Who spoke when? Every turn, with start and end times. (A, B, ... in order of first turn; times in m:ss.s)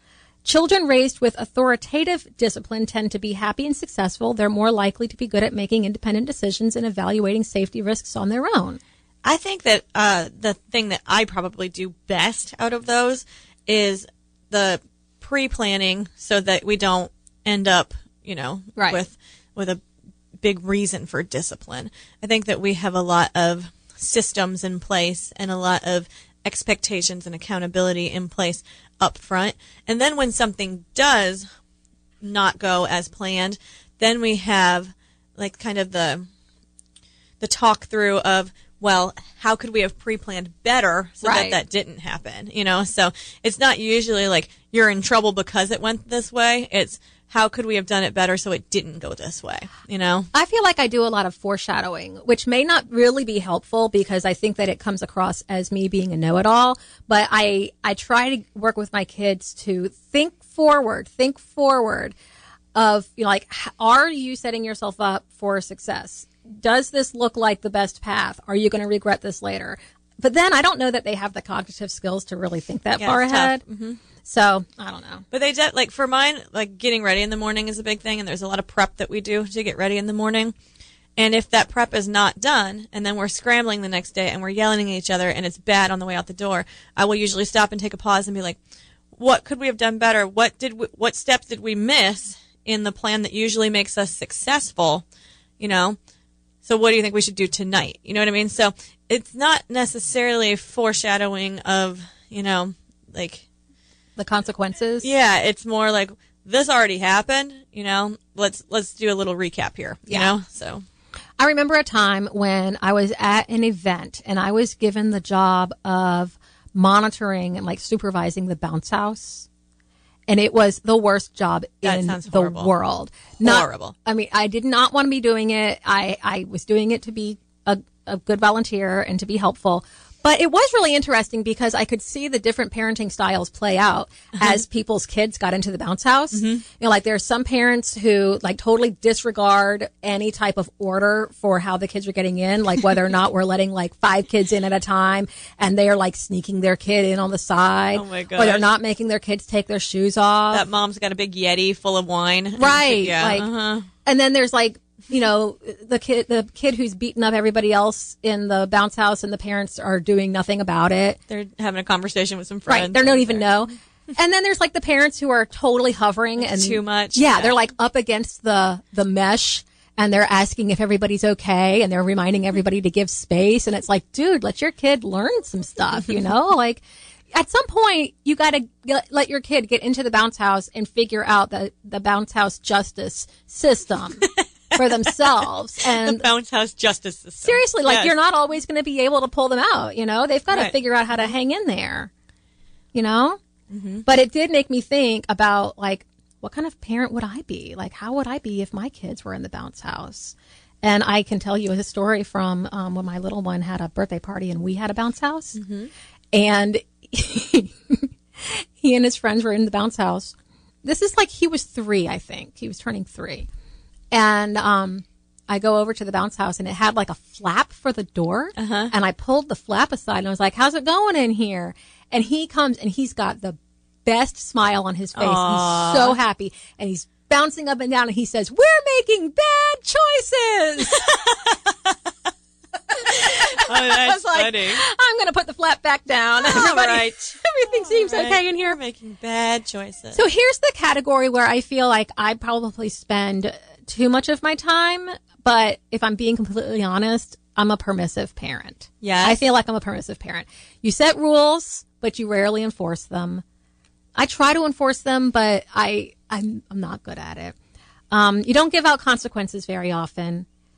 0:00.4-0:08.8 A
0:09.2-0:19.8 B
0:20.4-0:31.4 B
0:32.2-0:36.3 B
0:37.4-0:50.3 B
0:41.2-0:41.6 A
0:50.3-1:02.1 A
1:02.7-1:13.6 A
1:13.0-1:14.0 B
1:14.2-1:15.2 A
1:15.3-1:20.5 B
1:21.2-1:28.6 B
1:29.1-1:35.0 B
1:35.6-1:36.0 B
1:36.6-1:43.4 B
1:44.2-1:45.1 A
1:45.0-1:50.8 B
1:51.4-1:59.5 A
2:00.3-2:30.6 A
2:01.8-2:02.7 B
2:03.4-2:03.9 B
2:16.3-2:16.6 B
2:27.9-2:28.6 B
2:30.5-2:33.9 B
2:32.6-2:33.5 A
2:34.0-2:41.2 A
2:41.3-2:43.4 B
2:42.7-3:06.2 A
2:46.4-2:47.5 B
3:04.7-3:08.1 B
3:07.4-3:12.1 A
3:10.5-3:11.3 B
3:12.9-3:13.4 A
3:13.7-3:14.0 B
3:14.0-3:25.6 A
3:25.6-3:25.9 B
3:26.3-3:33.5 A
3:34.1-3:51.1 A
3:38.6-3:38.9 B
3:45.2-3:46.2 B
3:51.0-3:51.5 B
3:52.9-3:58.8 A
3:53.1-3:54.8 B
3:56.4-4:00.2 B
4:00.1-4:13.4 A
4:09.0-4:09.4 B
4:14.2-4:17.5 A
4:18.1-4:20.4 A